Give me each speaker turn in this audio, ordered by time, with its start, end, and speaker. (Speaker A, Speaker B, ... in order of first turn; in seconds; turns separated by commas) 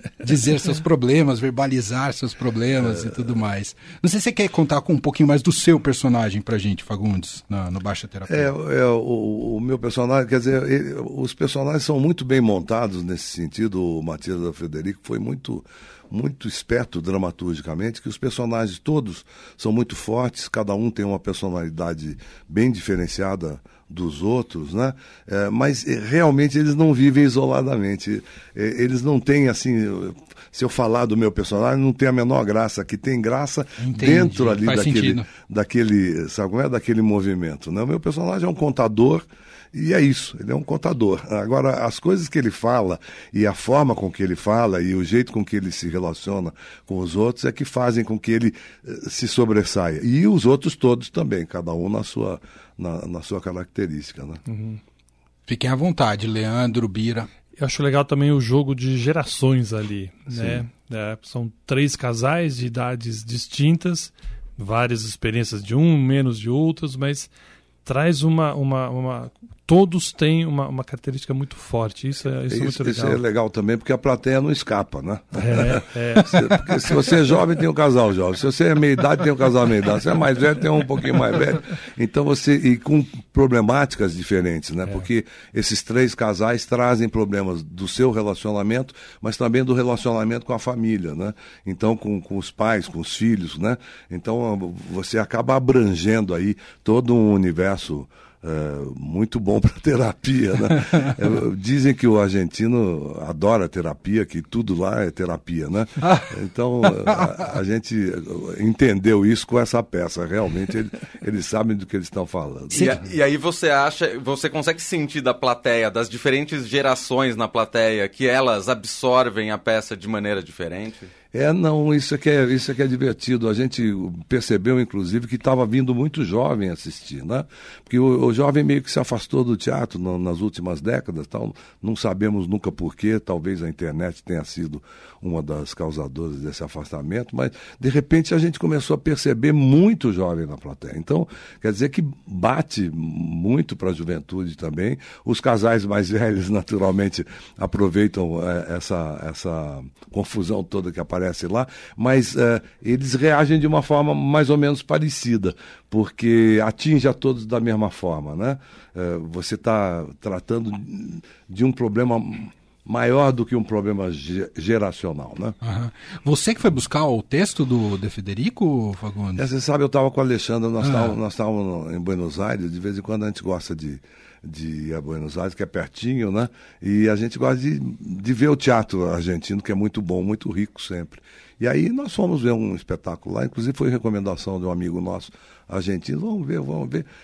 Speaker A: 0.2-8.5, Speaker B: 2.8-3.2, Speaker B: 8.3-54.4, Speaker A: 33.8-35.3, Speaker C: 54.5-54.8, Speaker A: 55.5-57.3, Speaker C: 57.6-67.3, Speaker B: 60.3-60.6, Speaker C: 67.8-73.2, Speaker B: 72.5-113.0, Speaker C: 75.4-76.7, Speaker A: 106.0-106.3, Speaker D: 112.7-121.1, Speaker B: 121.3-165.6, Speaker A: 165.6-169.4, Speaker B: 169.3-187.1, Speaker A: 170.8-171.2